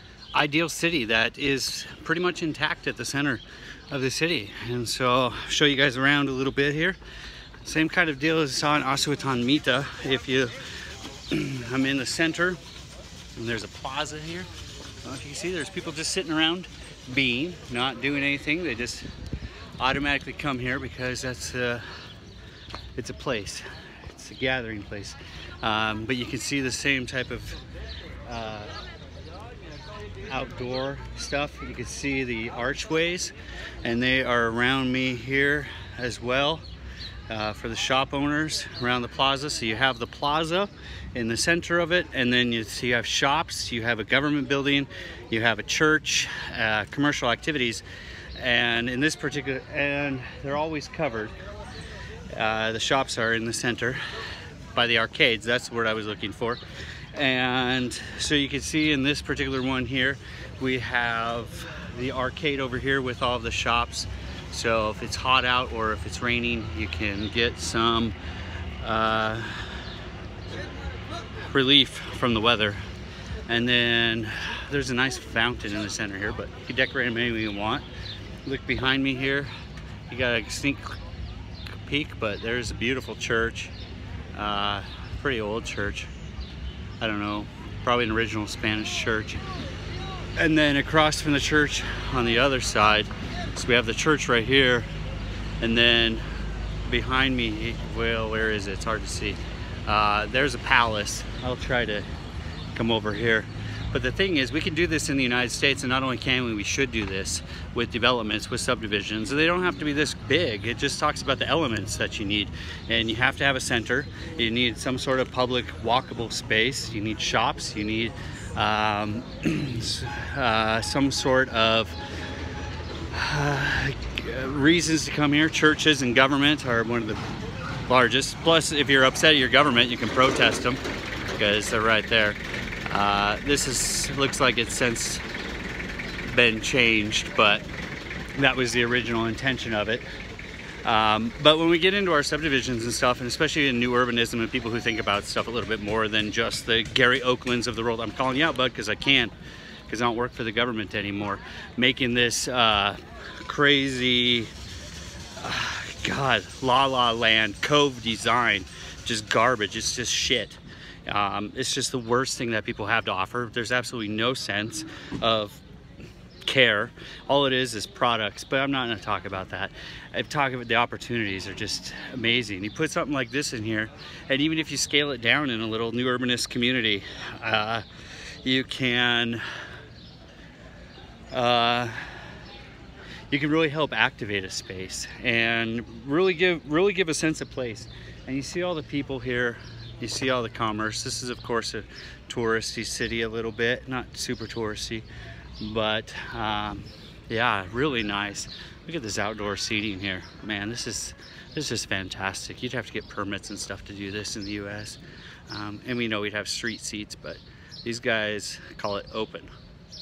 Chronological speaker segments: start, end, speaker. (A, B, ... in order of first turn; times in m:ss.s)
0:00.3-0:07.0 A
0:07.6-0:10.6 A
0:11.3-0:12.6 A
0:13.4-0:14.5 A
0:15.0-0:19.1 A
0:19.8-0:21.8 A
0:23.0-0:27.6 A
0:28.3-0:28.8 A
0:30.3-0:36.6 A
0:37.3-0:47.8 A
0:48.4-0:51.3 A
0:52.3-0:54.0 A
0:54.7-0:56.6 A
0:57.1-1:08.2 A
1:08.8-1:09.7 A
1:11.5-1:12.8 A
1:13.5-1:17.8 A
1:18.4-1:19.5 A
1:20.1-1:21.0 A
1:21.8-1:23.7 A
1:24.3-1:26.1 A
1:27.0-1:29.4 A
1:30.4-1:34.9 A
1:35.6-1:36.2 A
1:36.8-1:42.1 A
1:42.7-2:02.0 A
2:03.1-2:07.2 A
2:07.9-2:10.8 A
2:11.4-2:15.2 A
2:16.3-2:17.7 A
2:18.4-2:20.1 A
2:20.8-2:29.3 A
2:29.9-2:34.5 A
2:35.4-2:45.6 A
2:46.4-2:57.8 A
2:58.4-2:59.4 A
3:01.3-3:02.0 A
3:03.3-3:15.1 A
3:15.6-3:29.5 A